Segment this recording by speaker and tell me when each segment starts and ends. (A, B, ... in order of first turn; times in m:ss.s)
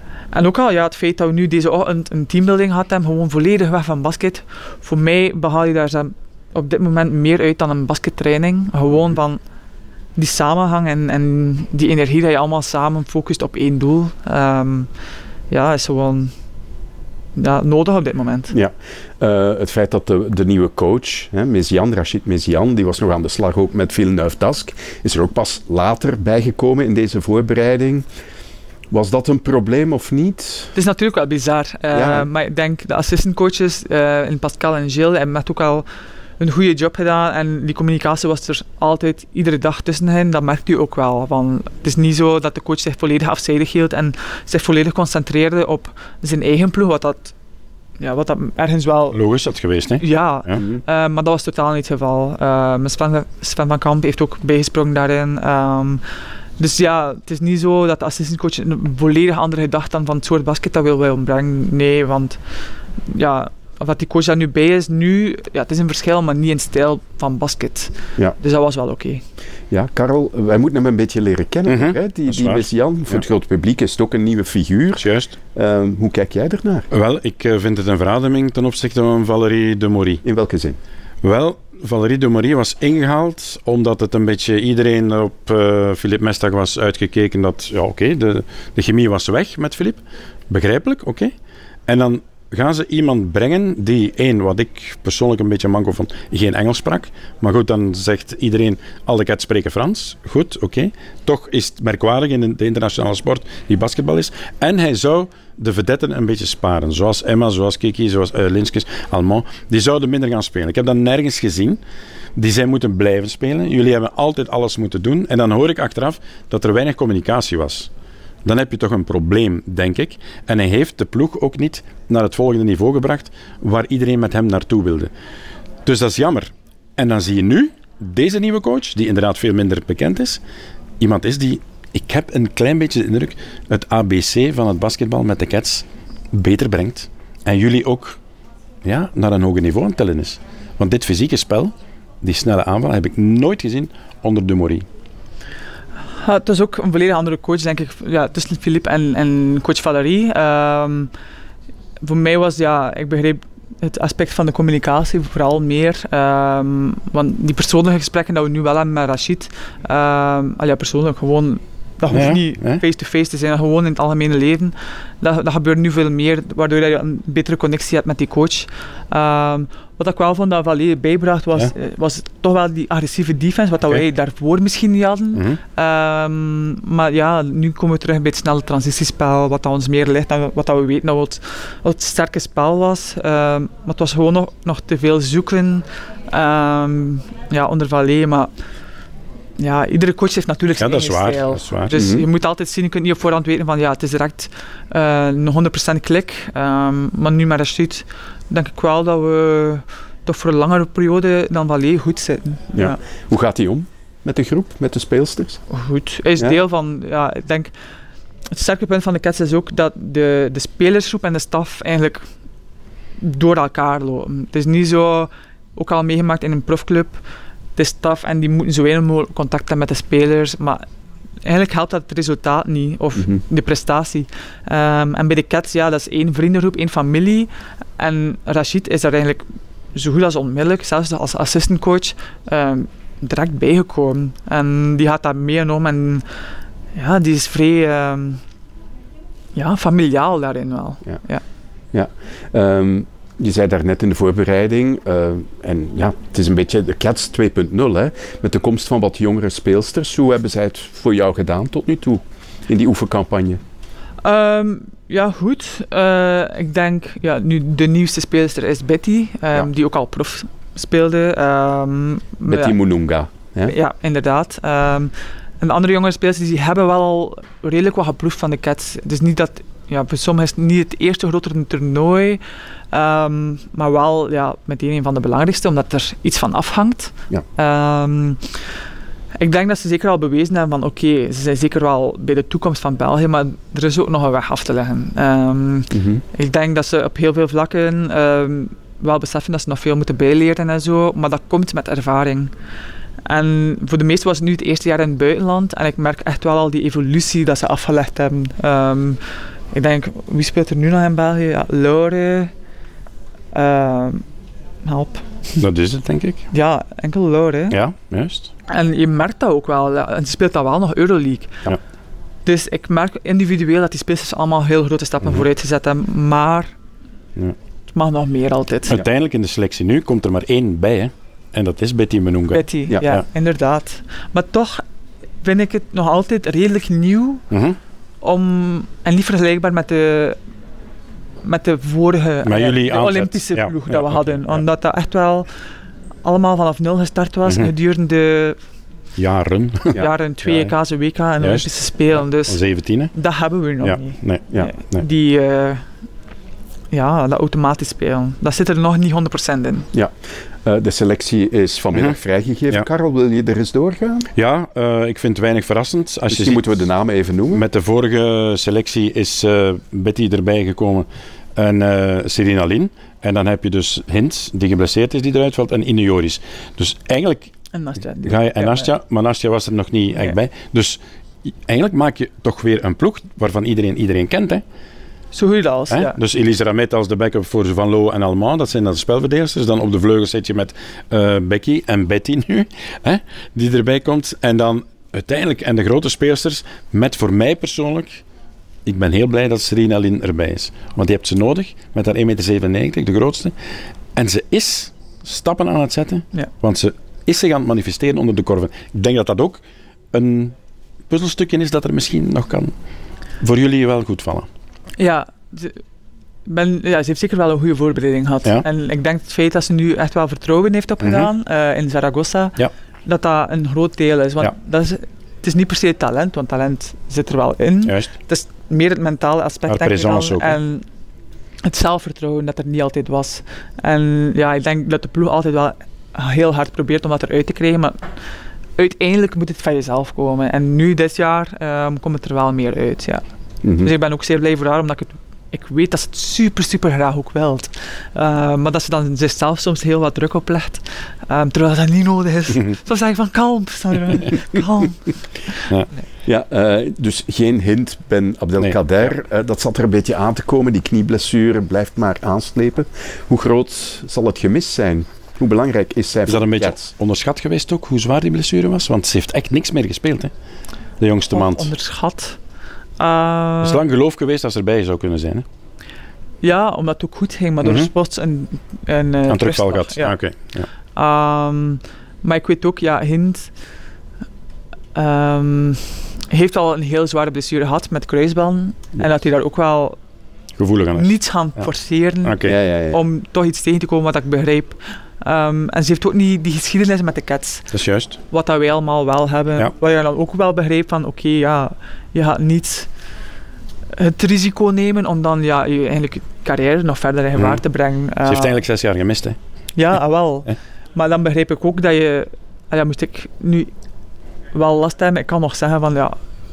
0:00.3-0:09.4 A
0:10.2-0:14.9 A
0:15.5-0:16.3 A
0:17.4-0:18.5 A
0:18.5-0:28.1 B
0:28.9-0:30.7 B
0:30.7-0:35.8 A
0:31.9-0:32.3 B
0:36.4-0:47.3 A
0:48.0-0:49.2 A
0:49.1-0:50.6 C
0:50.0-0:56.0 A
0:50.6-0:50.8 B
0:56.6-1:02.4 A
1:03.0-1:09.2 A
1:09.7-1:16.9 B
1:11.7-1:13.2 C
1:15.0-1:15.4 C
1:16.9-1:20.2 C
1:20.2-1:20.8 B
1:21.2-1:31.3 C
1:31.9-1:51.8 C
1:52.4-1:57.9 C
1:58.4-2:05.1 C
2:05.8-2:10.4 C
2:11.0-2:18.2 C
2:18.8-2:24.8 C
2:26.2-2:31.1 A
2:32.0-3:08.5 A
2:42.1-2:42.8 C
2:55.3-2:55.6 C
3:09.6-3:23.0 A
3:10.8-3:12.0 C
3:11.9-3:12.3 B
3:22.7-3:25.6 B
3:25.7-3:27.7 A
3:28.5-3:32.3 A
3:33.2-3:37.2 A
3:37.8-3:40.8 A
3:41.4-3:56.2 A
3:56.9-3:58.4 A
3:59.5-4:01.4 A
4:01.9-4:13.6 B
4:14.2-4:22.8 A
4:22.5-4:23.7 B
4:23.6-4:38.7 A
4:39.4-4:52.5 A
4:45.9-4:46.2 B
4:53.2-5:02.5 A
5:03.5-5:04.2 A
5:04.8-5:05.2 A
5:05.6-5:06.4 C
5:06.5-5:07.8 A
5:07.7-5:08.5 C
5:08.7-5:11.6 A
5:12.4-5:16.7 A
5:17.9-5:19.0 A
5:18.9-5:23.2 C
5:22.5-5:24.8 A
5:25.4-5:27.4 A
5:27.5-5:27.8 C
5:28.2-5:30.4 A
5:31.4-5:35.5 A
5:32.4-5:34.6 C
5:36.2-5:38.6 A
5:39.2-5:40.7 C
5:40.0-5:42.6 A
5:41.4-5:43.1 C
5:43.1-5:45.9 A
5:43.8-5:45.0 C
5:46.9-5:49.9 A
5:49.9-5:54.3 B
5:54.3-5:56.7 C
5:56.3-5:57.6 B
5:57.5-6:07.5 C
6:07.7-6:08.9 A
6:08.2-6:14.6 C
6:15.3-6:16.2 A
6:15.9-6:28.2 C
6:28.8-6:33.5 C
6:34.2-6:39.6 C
6:40.1-6:40.5 C
6:41.1-6:42.7 C
6:43.4-6:44.5 C
6:45.0-6:45.8 A
6:46.4-7:00.8 A
6:51.0-6:51.3 C
6:59.7-7:00.6 C
7:01.6-7:08.2 A
7:08.8-7:25.7 A
7:13.6-7:13.9 B
7:26.2-7:36.9 B
7:36.3-7:40.3 C
7:41.0-7:41.7 C
7:41.3-7:42.4 A
7:43.0-7:43.8 A
7:43.6-7:45.4 C
7:46.4-7:50.1 A
7:47.6-7:47.9 C
7:49.3-7:50.7 C
7:51.0-7:53.5 A
7:54.9-8:00.0 A
8:00.6-8:01.6 C
8:00.9-8:07.7 A
8:02.2-8:02.6 C
8:02.4-8:03.0 B
8:07.7-8:08.2 C
8:08.3-8:12.9 A
8:13.9-8:18.6 A
8:18.3-8:19.4 C
8:19.7-8:23.7 A
8:24.5-8:26.2 A